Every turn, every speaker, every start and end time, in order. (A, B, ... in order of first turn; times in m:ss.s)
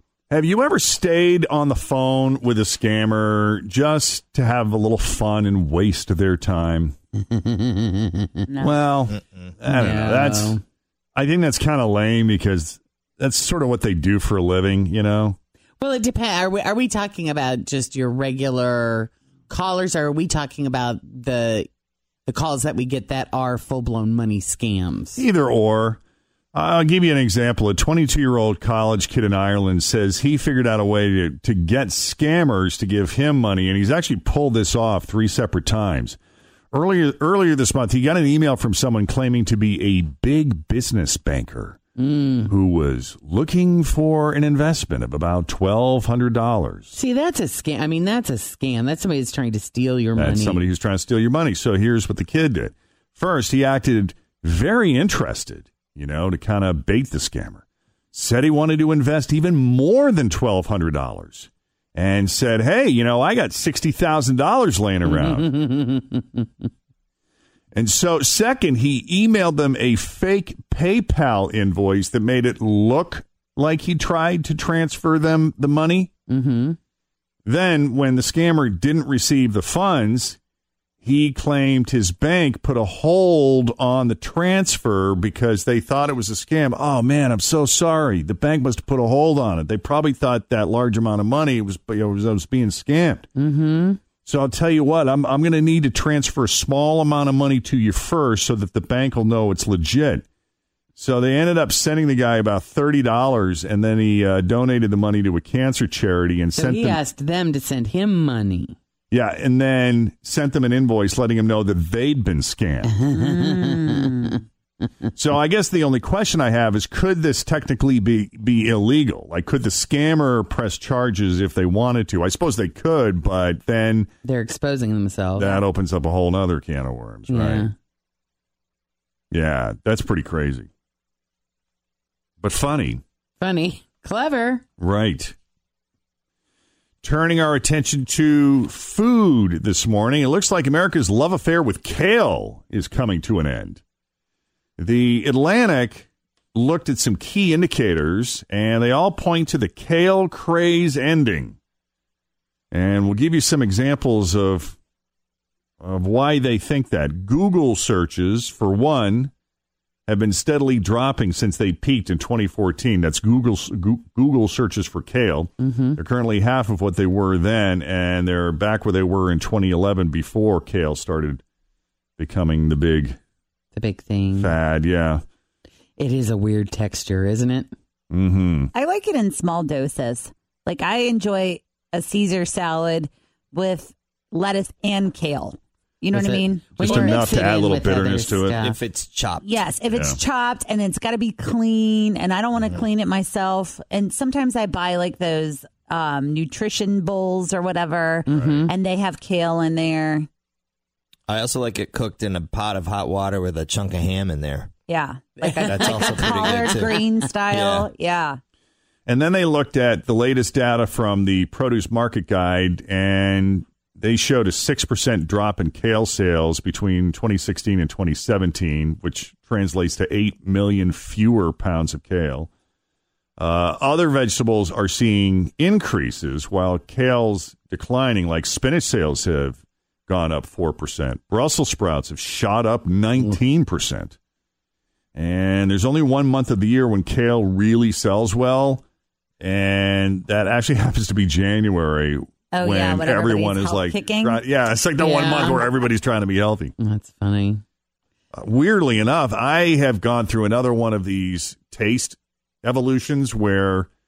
0:00.3-0:06.9 A
0:07.1-0:08.5 B
0:08.5-0:08.8 C
0:08.6-0:10.6 A
0:09.1-0:09.5 D
0:09.6-0:10.6 B
0:11.1-0:15.4 A
0:15.8-0:21.7 B
0:22.2-0:25.2 B
0:25.2-0:26.0 A
0:26.5-0:36.2 A
0:36.7-0:41.8 A
0:42.0-0:42.5 B
0:42.4-0:46.9 A
0:46.9-0:50.6 B
0:50.2-1:05.6 A
1:05.0-1:06.7 B
1:07.7-1:16.1 A
1:16.3-1:16.8 B
1:17.4-1:20.4 A
1:21.0-1:33.3 A
1:33.4-1:34.0 B
1:34.2-1:40.2 A
1:41.0-1:47.0 A
1:46.5-1:48.8 B
1:49.1-1:52.9 A
1:52.8-1:54.4 B
1:53.1-1:54.4 C
1:55.2-2:04.1 A
2:04.2-2:05.6 B
2:05.4-2:07.7 A
2:07.3-2:07.7 B
2:09.3-2:10.7 A
2:12.4-2:13.0 A
2:13.4-2:14.6 B
2:14.8-2:15.3 A
2:17.0-2:23.8 A
2:24.8-2:31.6 A
2:32.7-2:34.8 A
2:35.8-2:39.3 A
2:40.1-2:51.4 A
2:45.6-2:46.0 B
2:52.2-2:53.2 A
2:53.7-2:54.5 B
2:54.4-2:55.2 A
2:56.0-2:57.7 B
2:58.1-2:58.7 A
2:58.7-3:07.2 C
3:06.1-3:08.8 B
3:06.8-3:08.6 A
3:08.6-3:09.6 D
3:09.4-3:20.3 C
3:09.9-3:10.2 A
3:18.2-3:18.7 B
3:18.3-3:18.6 A
3:21.3-3:24.7 D
3:24.9-3:28.4 C
3:25.4-3:27.0 B
3:25.6-3:27.9 D
3:29.1-3:42.5 A
3:43.4-3:54.1 A
3:55.1-3:58.8 A
3:59.4-4:06.7 A
4:02.5-4:04.4 C
4:05.0-4:05.7 B
4:06.8-4:07.6 B
4:08.3-4:13.9 A